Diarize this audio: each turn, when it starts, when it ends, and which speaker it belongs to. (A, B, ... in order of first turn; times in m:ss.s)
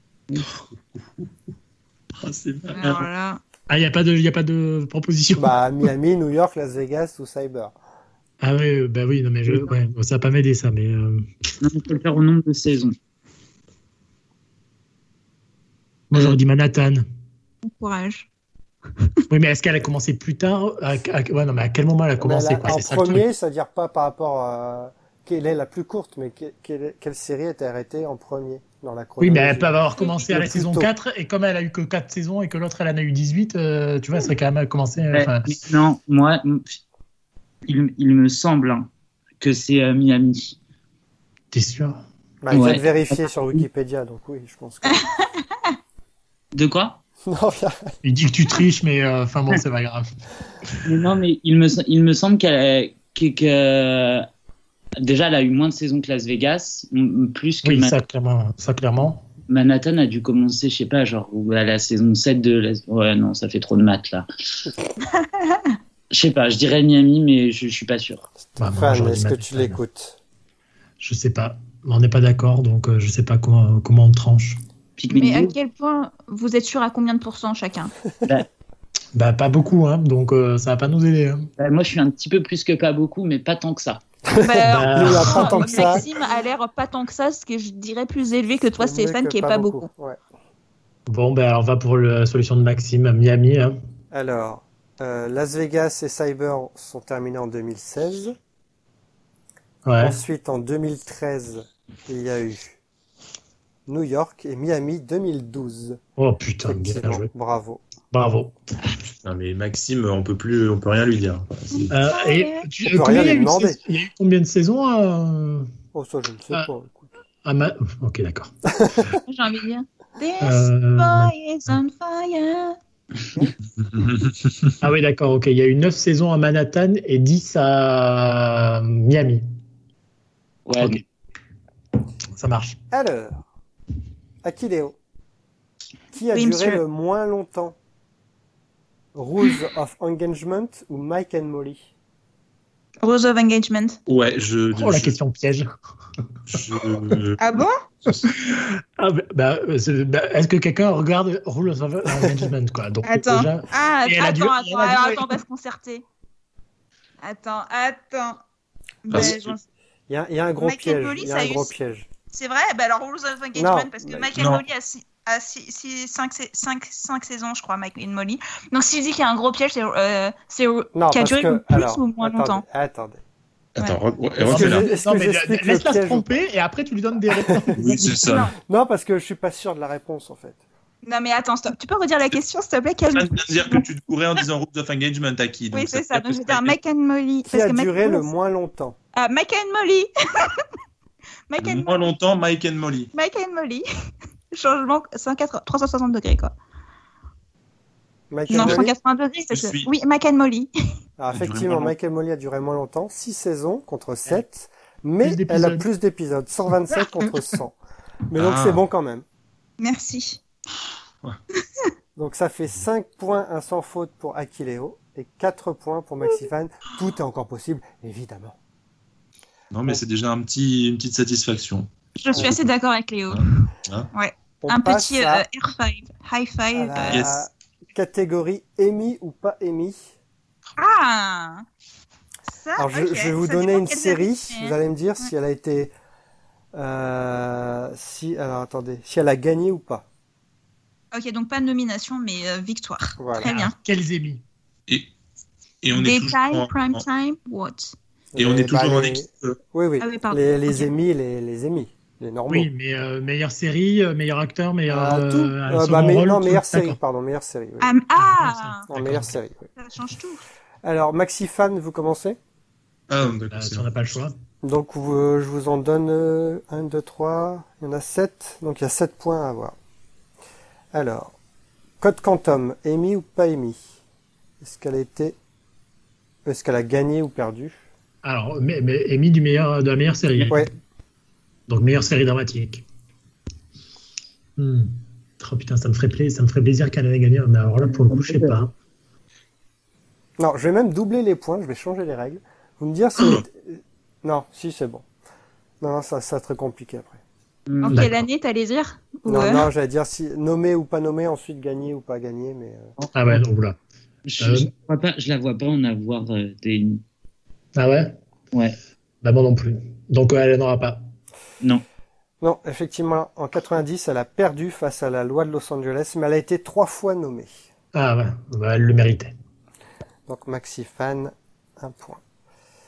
0:00.4-0:01.3 A
0:02.2-0:03.1 A
0:02.7-0:03.4 B
0:03.7-0:05.6 C
0:05.4-0:07.8 D
0:08.4-0:11.3 C
0:11.6-0:13.0 E
0:16.1-0:17.0 C
0:17.6-0:18.3 B
0:19.3-0:23.3 C
0:22.2-0:30.9 D
0:29.2-0:35.6 C
0:35.1-0:36.8 E
0:37.6-0:38.9 E
0:39.4-0:40.6 E
0:41.5-0:42.0 C
0:42.4-0:45.0 D
0:42.5-0:43.6 E
0:44.9-0:45.7 B
0:46.5-0:47.0 E
0:47.2-0:47.9 D
0:48.0-0:50.0 C
0:50.8-0:54.3 E
0:55.0-0:57.9 E
0:57.6-0:59.2 C
0:59.5-1:04.3 E
1:05.0-1:05.8 B
1:06.1-1:08.3 E
1:08.5-1:10.2 D
1:08.6-1:09.8 C
1:11.0-1:14.6 C
1:15.0-1:15.5 E
1:15.1-1:17.9 B
1:19.1-1:21.5 C
1:21.6-1:24.0 E
1:24.3-1:26.1 D
1:24.3-1:29.9 B
1:24.7-1:26.0 C
1:28.8-1:30.2 D
1:31.1-1:33.8 C
1:34.1-1:38.4 D
1:39.8-1:40.2 C
1:40.0-1:42.8 D
1:43.9-1:46.0 D
1:46.2-1:47.3 C
1:46.6-1:47.8 D
1:48.1-1:48.5 C
1:49.0-1:51.9 A
1:51.7-1:52.7 B
1:51.9-1:55.7 C
1:52.8-1:53.8 D
1:55.9-1:57.1 D
1:57.4-1:58.5 C
1:58.7-1:59.2 D
1:59.2-2:02.8 B
2:00.4-2:01.8 C
2:03.8-2:04.6 A
2:04.8-2:09.4 C
2:10.6-2:11.0 E
2:12.4-2:12.8 C
2:12.9-2:13.4 D
2:14.4-2:15.0 D
2:16.1-2:17.8 D
2:16.3-2:16.8 B
2:19.1-2:21.8 D
2:23.0-2:24.0 B
2:24.1-2:25.2 A
2:24.7-2:25.7 C
2:26.5-2:27.4 A
2:27.4-2:27.8 B
2:28.2-2:35.4 C
2:32.1-2:32.5 D
2:33.0-2:36.0 B
2:37.2-2:38.4 B
2:39.0-2:39.6 B
2:39.1-2:39.5 A
2:40.1-2:42.1 D
2:40.6-2:41.7 B
2:42.3-2:52.6 B
2:43.5-2:44.4 D
2:44.4-2:44.6 A
2:50.9-2:53.2 D
2:53.8-2:54.9 A
2:54.4-2:56.3 D
2:54.4-2:58.3 C
2:57.3-2:57.8 D
2:57.8-2:58.5 A
2:58.2-2:58.5 B
2:58.6-3:00.6 D
3:01.0-3:03.8 B
3:03.1-3:06.8 A
3:05.7-3:08.2 B
3:07.4-3:09.0 D
3:09.1-3:10.6 B
3:11.5-3:12.1 B
3:11.6-3:13.1 A
3:13.1-3:13.8 B
3:14.5-3:16.5 B
3:18.3-3:18.9 D
3:18.5-3:20.7 B
3:18.5-3:18.8 A
3:19.5-3:19.9 A
3:21.2-3:27.8 D
3:21.3-3:21.9 A
3:25.2-3:25.9 C
3:28.3-3:29.2 D
3:28.3-3:28.8 A
3:29.8-3:30.4 B
3:32.2-3:38.6 D
3:39.7-3:42.7 A
3:42.2-3:47.3 B
3:43.3-3:44.1 A
3:44.6-3:45.4 D
3:46.7-3:50.1 D
3:47.1-3:47.4 A
3:50.8-3:51.6 B
3:52.5-3:55.3 B
3:52.8-3:55.9 D
3:56.8-4:00.0 D
4:01.1-4:03.8 B
4:03.2-4:03.5 D
4:03.4-4:04.4 C
4:05.8-4:07.0 A
4:05.9-4:07.9 B
4:08.3-4:12.7 D
4:08.4-4:09.6 A
4:10.0-4:10.9 B
4:12.5-4:17.0 C
4:14.9-4:17.9 D
4:17.8-4:18.9 B
4:18.2-4:19.4 C
4:18.9-4:19.7 D
4:19.8-4:20.4 B
4:20.8-4:22.4 D
4:23.1-4:23.9 A
4:23.5-4:24.3 C
4:24.6-4:29.8 D
4:30.9-4:31.3 D
4:32.0-4:33.8 D
4:34.6-4:35.4 D
4:36.4-4:37.8 D
4:38.2-4:40.6 C
4:41.7-4:42.8 C
4:44.6-4:48.7 C
4:47.9-4:48.5 E
4:50.4-4:55.0 D
4:55.8-4:57.2 D
4:57.7-4:58.1 E
4:57.8-4:59.7 B
4:57.9-4:58.2 C
4:59.2-5:02.9 D
5:03.0-5:03.4 E
5:03.1-5:03.8 C
5:04.2-5:07.0 E
5:04.4-5:04.7 C
5:07.8-5:08.2 C
5:09.2-5:11.0 C
5:12.4-5:17.5 D
5:17.9-5:19.3 C
5:20.3-5:22.2 D